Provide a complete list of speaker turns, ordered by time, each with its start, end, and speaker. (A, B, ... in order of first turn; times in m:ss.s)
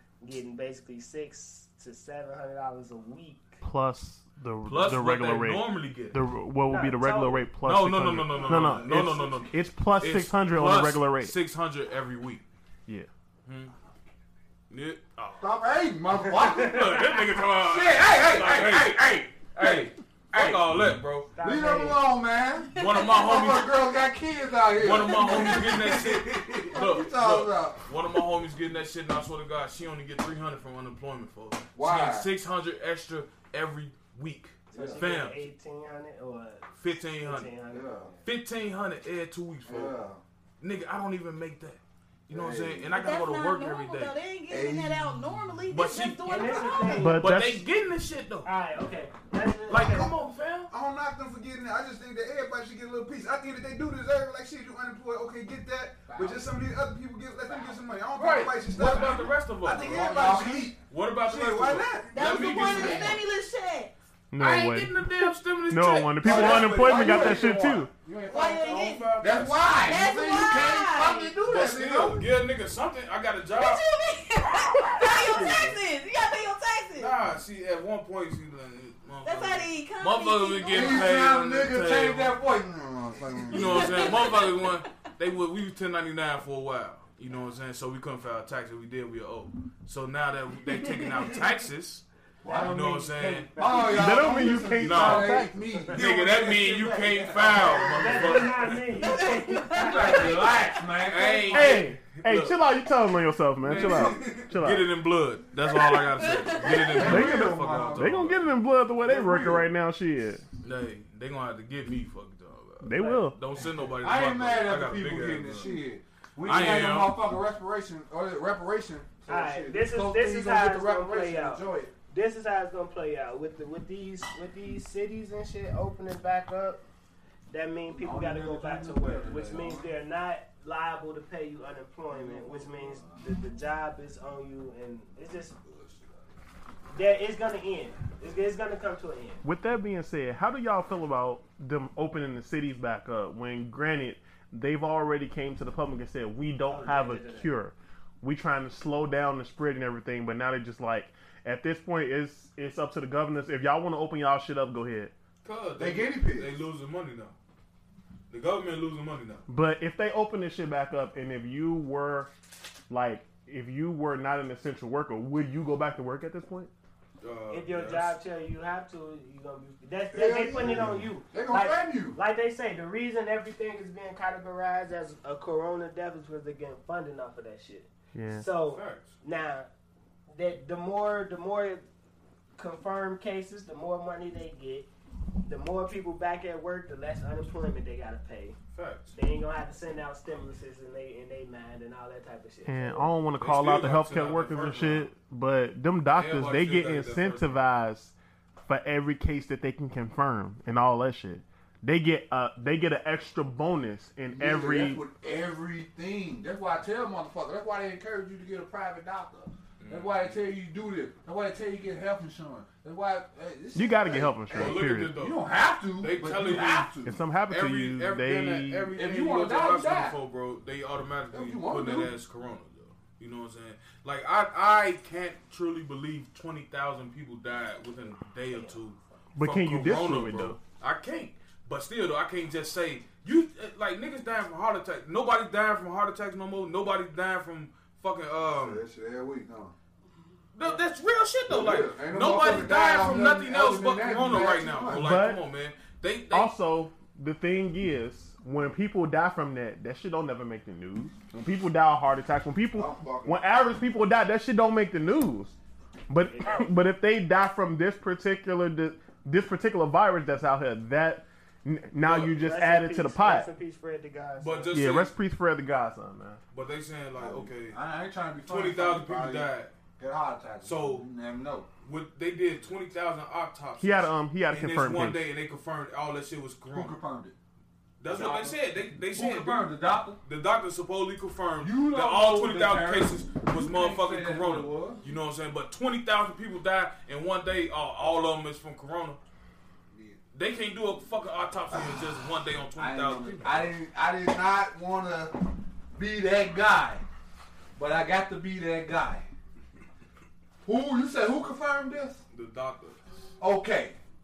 0:00.2-0:03.6 A
0:03.6-0:11.4 B
0:04.6-0:06.2 C
0:06.7-0:07.5 A
0:07.6-0:12.4 C
0:13.5-0:13.7 C
0:14.7-0:15.5 C
0:15.4-0:20.6 D
0:16.3-0:21.3 C
0:21.3-0:22.0 A
0:21.4-0:27.9 D
0:22.8-0:23.5 E
0:22.8-0:23.7 C
0:24.8-0:35.4 C
0:31.8-0:32.3 D
0:34.7-0:38.2 A
0:34.7-0:35.1 D
0:36.8-0:37.5 C
0:37.7-0:38.1 D
0:38.2-0:39.9 C
0:39.7-0:40.2 D
0:40.6-0:44.2 C
0:42.3-0:42.9 D
0:42.9-0:47.1 E
0:44.5-0:45.0 D
0:45.7-0:48.5 C
0:46.2-0:47.3 A
0:47.0-0:47.6 B
0:48.4-0:50.1 A
0:49.7-0:50.7 C
0:50.7-1:00.7 F
0:56.1-0:56.5 D
0:57.5-0:57.8 D
0:58.2-1:00.3 C
0:59.7-1:00.8 D
1:00.9-1:03.2 C
1:01.2-1:03.1 F
1:02.1-1:03.9 E
1:02.2-1:03.2 D
1:04.3-1:07.9 B
1:04.4-1:07.5 C
1:06.2-1:12.3 D
1:06.3-1:07.7 F
1:08.3-1:09.2 E
1:08.3-1:09.8 C
1:09.8-1:11.4 E
1:11.4-1:13.8 C
1:13.6-1:17.1 E
1:15.4-1:15.7 C
1:17.0-1:22.4 C
1:19.2-1:21.2 E
1:20.7-1:24.2 D
1:23.5-1:33.6 C
1:23.5-1:24.8 E
1:32.4-1:38.5 D
1:32.5-1:34.6 A
1:33.9-1:35.6 B
1:34.8-1:39.0 C
1:36.8-1:40.4 A
1:39.0-1:40.8 E
1:39.8-1:41.9 D
1:41.0-1:42.6 C
1:41.5-1:44.9 B
1:43.6-1:48.4 C
1:43.7-1:44.4 F
1:45.6-1:47.2 E
1:46.7-1:48.3 D
1:47.0-1:50.4 B
1:49.0-1:49.7 D
1:50.6-1:55.8 C
1:52.8-1:53.4 B
1:53.0-1:53.2 A
1:54.0-2:01.9 D
1:56.4-1:57.2 C
1:59.3-2:06.8 A
2:07.5-2:15.6 A
2:07.9-2:09.9 D
2:12.1-2:13.2 D
2:15.7-2:16.0 D
2:16.9-2:19.4 A
2:19.4-2:35.1 B
2:26.7-2:27.5 A
2:35.4-2:37.4 C
2:35.8-2:36.6 D
2:38.3-2:39.4 C
2:39.5-2:42.3 B
2:42.9-2:46.7 B
2:47.2-2:48.2 C
2:47.5-2:59.7 A
2:50.1-2:52.2 D
2:58.1-2:58.4 B
2:58.7-2:59.2 C
3:00.3-3:01.8 A
3:02.6-3:04.9 A
3:05.4-3:08.6 A
3:08.8-3:09.2 C
3:09.2-3:13.1 A
3:12.7-3:18.2 B
3:13.4-3:15.1 C
3:16.1-3:17.6 C
3:18.7-3:25.0 B
3:24.3-3:37.2 D
3:29.8-3:30.4 C
3:33.7-3:35.2 B
3:34.5-3:35.4 C
3:36.0-3:36.9 C
3:37.0-3:38.9 B
3:37.5-3:58.8 C
3:38.9-3:40.2 D
3:41.3-3:42.1 D
3:48.5-3:48.8 A
3:49.4-3:50.6 B
3:58.5-3:59.7 D
4:00.6-4:06.5 C
4:01.5-4:05.2 D
4:04.9-4:05.4 B
4:06.3-4:15.6 B
4:12.7-4:13.4 D
4:16.1-4:23.5 B
4:16.3-4:16.7 A
4:22.1-4:24.9 A
4:24.4-4:25.1 C
4:24.7-4:26.4 B
4:26.5-4:27.8 C
4:27.2-4:31.7 D
4:28.5-4:29.7 C
4:30.6-4:31.0 C
4:31.8-4:37.0 C
4:33.8-4:35.3 B
4:36.7-4:37.4 D
4:38.0-4:49.2 C
4:38.1-4:40.2 D
4:41.6-4:45.0 D
4:49.9-4:50.2 D
4:50.3-4:53.8 C
4:51.7-4:52.0 D
4:52.8-4:55.4 D
4:55.9-4:57.0 D
4:57.8-4:59.3 D
5:00.6-5:02.2 D
5:02.3-5:03.0 C
5:03.4-5:04.0 D